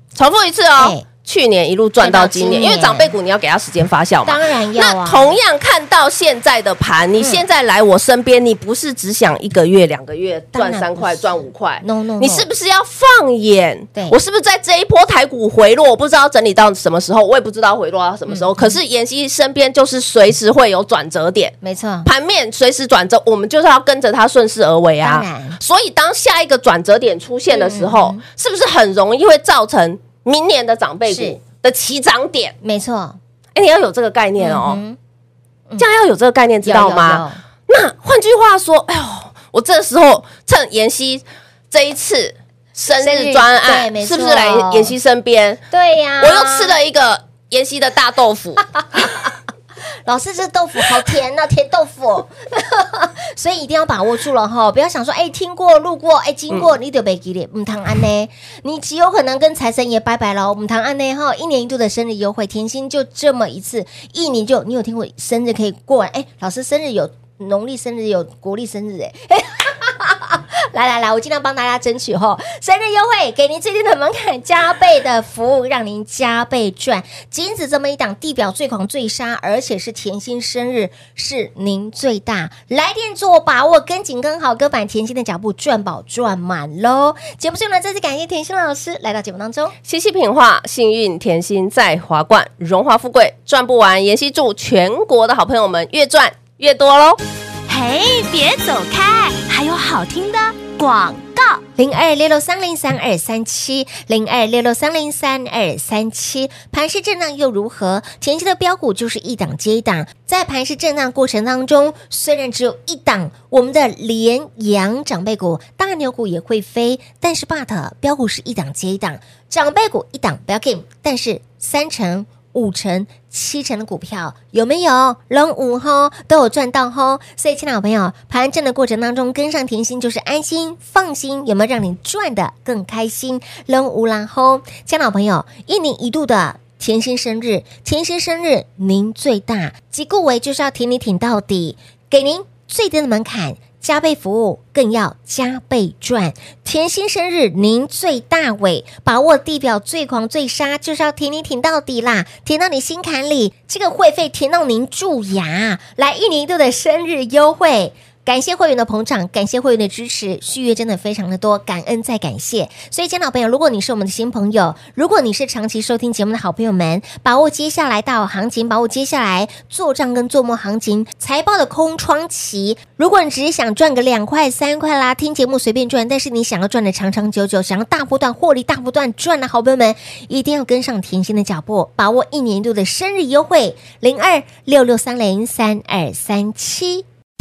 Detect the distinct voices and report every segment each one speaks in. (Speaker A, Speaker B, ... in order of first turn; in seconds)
Speaker A: 0.1-32.5, 33.5-34.8, 35.8-45.6, 46.2-48.7, 89.8-97.2
Speaker B: 0.8-1.1, 2.0-3.1, 4.2-5.4, 10.5-12.5, 18.3-18.8, 21.6-22.1, 25.0-25.6, 27.5-28.2, 31.1-31.4, 32.6-33.2, 34.4-35.0, 36.6-37.4, 43.0-44.9, 45.7-46.7, 48.7-49.3, 50.1-89.7, 101.8-187.1
Speaker C: 97.7-101.6